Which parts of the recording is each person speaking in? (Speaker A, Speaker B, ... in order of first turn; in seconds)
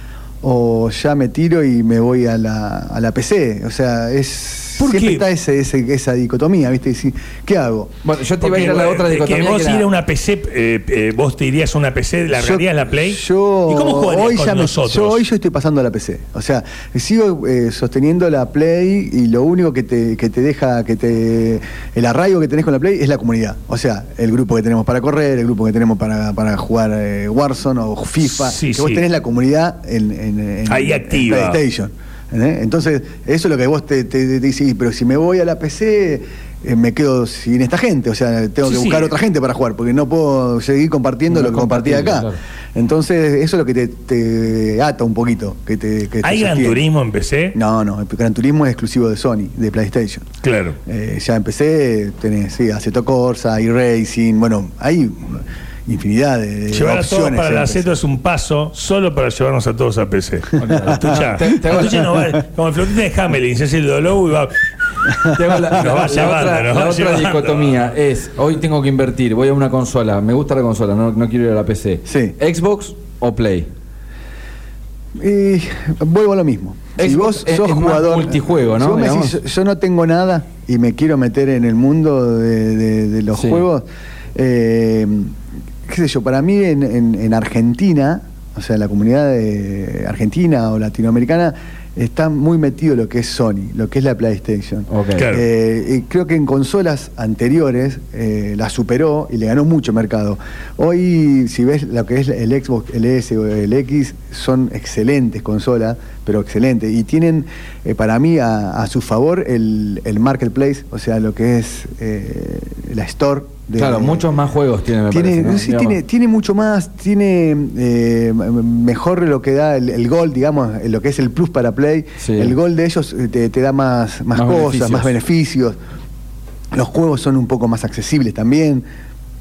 Speaker A: 0.4-7.9, 12.3-46.8, 47.5-50.3, 50.9-58.0, 72.1-72.3, 75.2-85.3, 85.9-114.3, 115.1-125.8, 126.7-128.8
Speaker B: 4.8-5.2, 8.4-15.2, 28.2-29.0, 30.7-31.6, 38.6-39.2, 46.2-47.6, 50.4-50.8, 56.7-64.5, 65.7-67.7, 95.2-95.4
Speaker C: 8.0-9.9, 41.3-42.4, 60.6-62.1, 65.3-73.7, 77.0-79.4, 83.3-83.7, 94.9-95.3, 113.8-116.0, 122.2-122.6, 124.3-125.2